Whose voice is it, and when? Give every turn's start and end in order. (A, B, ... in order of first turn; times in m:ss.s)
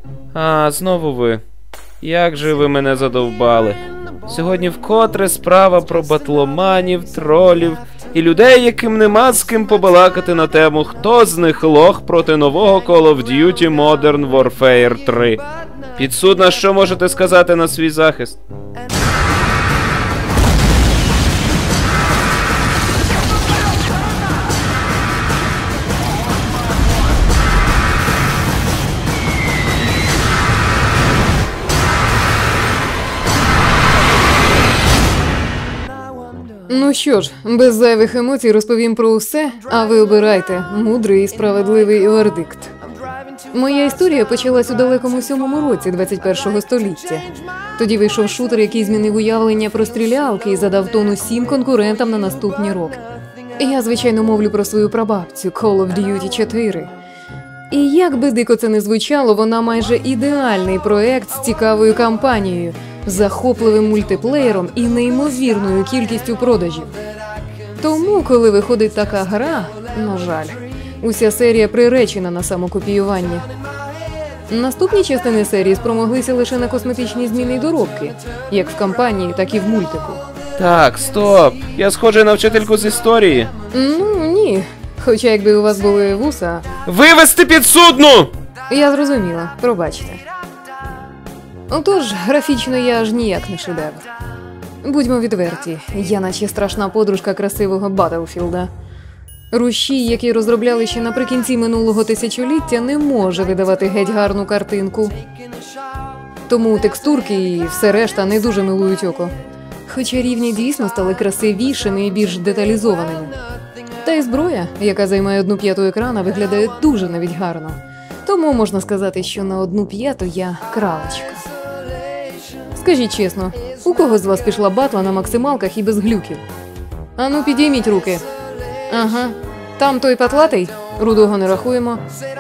0:00.3-0:01.4 A
0:02.0-0:15.4 A
0:16.0-0:18.4 A
0:36.7-0:42.7 B
0:43.5-0:53.0 B
0:53.6-0:56.9 B
0:57.7-1:07.0 B
1:07.8-1:13.5 B
1:14.5-1:20.2 B
1:20.6-1:23.5 A
1:23.7-1:26.7 B
1:26.8-1:28.3 A
1:28.7-1:30.2 B
1:31.7-1:34.1 B
1:34.8-1:38.7 B
1:39.5-1:45.2 B
1:46.5-1:49.3 B
1:49.9-1:53.4 B
1:54.0-2:01.5 B
2:02.7-2:06.4 B
2:07.2-2:08.2 B
2:08.9-2:12.0 B